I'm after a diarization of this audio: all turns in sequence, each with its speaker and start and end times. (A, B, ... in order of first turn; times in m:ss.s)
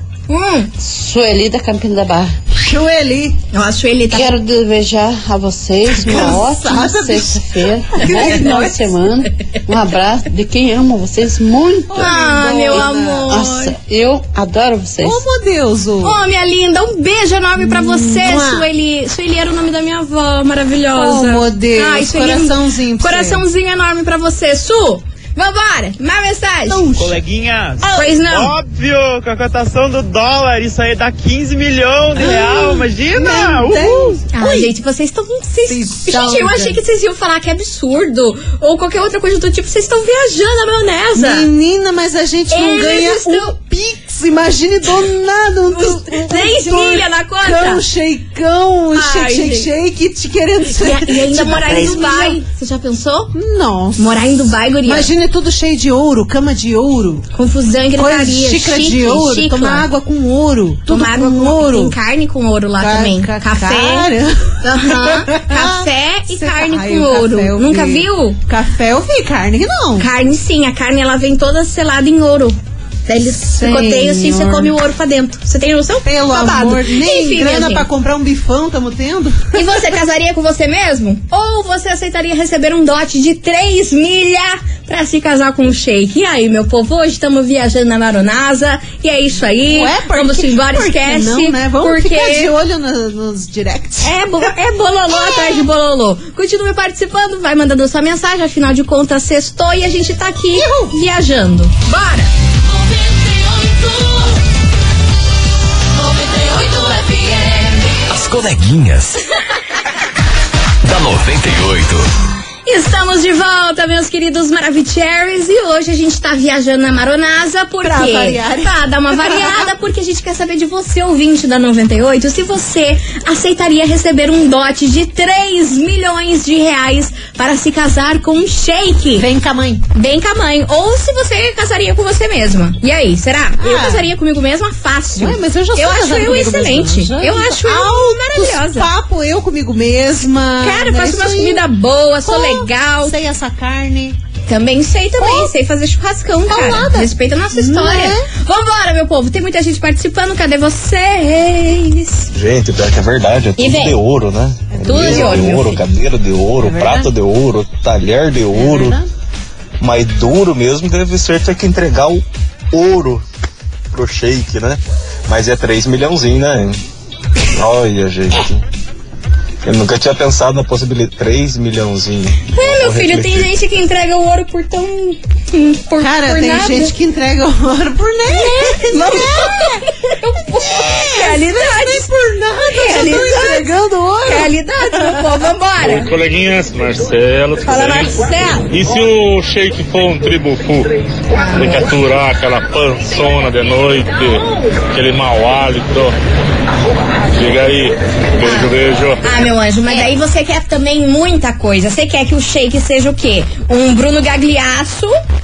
0:00.3-0:00.7 A
0:00.8-0:02.4 B
0:02.6-0:03.4 C
0:03.5-0:04.3 A
0:04.1-0:12.1 B
0:05.9-0:08.7 C
0:08.0-0:08.8 A
0:11.9-0:13.3 C
0:12.0-0:13.7 A
0:13.3-0:15.2 B
0:15.0-0:16.2 C
0:16.0-0:26.9 A
0:17.6-0:18.7 C
0:20.9-0:23.4 C
0:26.6-0:27.2 C
0:27.0-0:34.2 D
0:27.8-0:28.1 C
0:27.9-0:28.6 A
0:32.2-0:32.8 A
0:32.2-0:32.6 C
0:33.1-0:34.7 C
0:34.3-0:41.5 A
0:35.7-0:36.8 C
0:41.1-0:52.4 C
0:42.5-0:43.5 A
0:45.7-0:47.8 A
0:48.9-0:49.7 A
0:50.6-0:53.3 A
0:53.3-0:57.2 C
0:54.0-0:55.1 A
0:57.3-0:59.9 A
0:58.0-1:02.0 C
1:00.9-1:04.1 A
1:02.8-1:10.1 C
1:04.6-1:08.4 A
1:10.0-1:17.9 A
1:13.6-1:14.7 C
1:16.0-1:19.9 C
1:19.5-1:32.5 A
1:29.6-1:34.2 C
1:34.0-1:42.3 A
1:35.1-1:35.6 C
1:40.5-1:40.9 C
1:46.5-1:47.4 A
1:48.1-1:49.2 E
1:50.8-1:52.1 E
1:52.6-2:09.3 A
1:57.8-1:59.7 C
2:09.2-2:09.9 C
2:09.9-2:18.9 A
2:13.6-2:14.1 C
2:15.2-2:21.6 C
2:20.6-2:23.2 A
2:22.2-2:24.2 C
2:24.5-2:32.3 A
2:25.2-2:25.5 C
2:26.5-2:28.3 C
2:32.3-2:39.0 F
2:33.6-2:34.0 A
2:34.7-2:35.6 C
2:34.8-2:35.8 A
2:36.6-2:37.1 C
2:38.5-2:39.1 C
2:39.8-2:43.2 F
2:43.9-2:46.8 F
2:47.5-2:48.6 F
2:49.6-2:53.5 F
2:52.5-2:56.9 A
2:56.0-2:59.9 C
2:58.3-3:02.1 A
3:00.6-3:05.5 C
3:02.7-3:03.7 A
3:04.2-3:06.1 A
3:06.0-3:08.1 G
3:07.6-3:08.7 A
3:08.7-3:10.7 G
3:11.3-3:11.9 A
3:11.6-3:14.3 G
3:14.9-3:16.1 G
3:17.4-3:19.2 G
3:18.4-3:25.2 A